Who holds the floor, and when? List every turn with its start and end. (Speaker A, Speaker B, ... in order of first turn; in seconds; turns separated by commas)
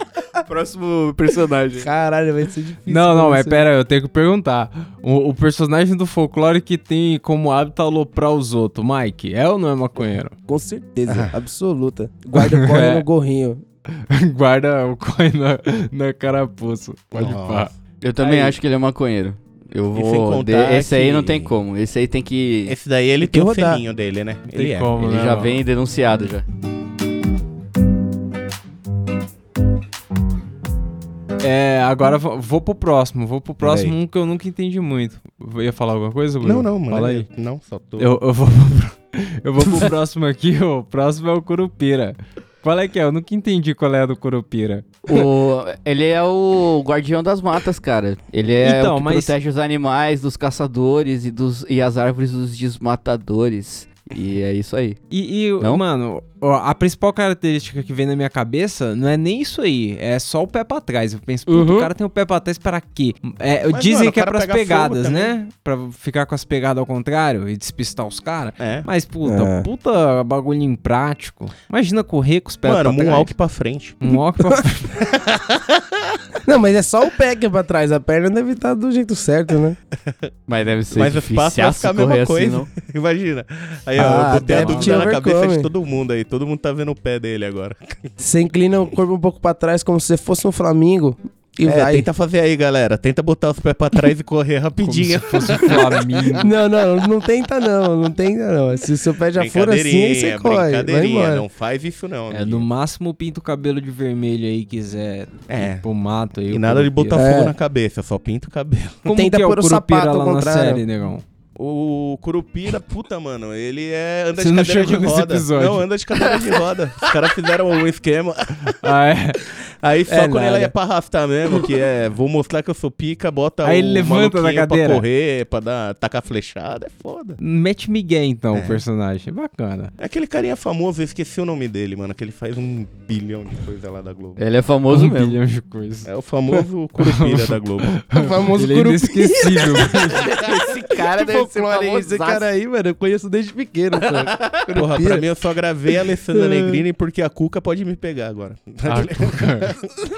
Speaker A: 0.4-1.9, Speaker B: 1.8-3.6, Speaker C: 2.9-10.3, Speaker B: 10.5-13.6, Speaker D: 11.1-11.3, Speaker C: 12.3-13.0, Speaker C: 13.9-18.6, Speaker D: 17.1-17.7, Speaker A: 18.0-22.8, Speaker D: 19.9-21.5, Speaker D: 22.6-24.9, Speaker B: 23.2-23.8, Speaker C: 24.5-25.6, Speaker A: 25.0-26.4, Speaker C: 31.4-37.3, Speaker D: 33.6-34.0, Speaker D: 36.4-38.2, Speaker C: 38.0-45.0, Speaker A: 45.1-55.0, Speaker C: 48.6-49.3, Speaker C: 55.1-73.3, Speaker B: 61.5-61.9, Speaker D: 63.7-65.3, Speaker D: 68.6-68.9, Speaker B: 69.2-69.7, Speaker D: 72.6-74.1, Speaker C: 74.0-74.9, Speaker D: 75.0-76.2, Speaker B: 76.4-79.8, Speaker A: 80.5-82.7, Speaker D: 80.9-88.0, Speaker B: 84.0-85.7, Speaker C: 84.0-85.1, Speaker B: 88.2-92.1, Speaker D: 91.6-96.4, Speaker C: 94.8-96.5, Speaker B: 96.4-101.4, Speaker D: 99.3-102.7, Speaker C: 102.3-107.3, Speaker D: 105.5-105.8, Speaker D: 106.5-109.1, Speaker B: 107.1-107.5, Speaker C: 109.0-111.2, Speaker B: 109.1-110.8, Speaker D: 111.5-127.4, Speaker C: 114.4-115.8, Speaker C: 118.8-119.4, Speaker B: 120.1-120.7, Speaker C: 123.6-125.0, Speaker C: 127.4-129.9, Speaker D: 128.5-128.8, Speaker D: 130.0-134.4, Speaker A: 134.4-135.3, Speaker C: 134.9-136.1, Speaker D: 136.0-137.9, Speaker C: 137.0-140.3, Speaker B: 138.1-145.2, Speaker A: 140.1-142.5, Speaker A: 144.0-144.6, Speaker D: 144.7-149.9, Speaker B: 146.3-146.8, Speaker C: 148.8-149.7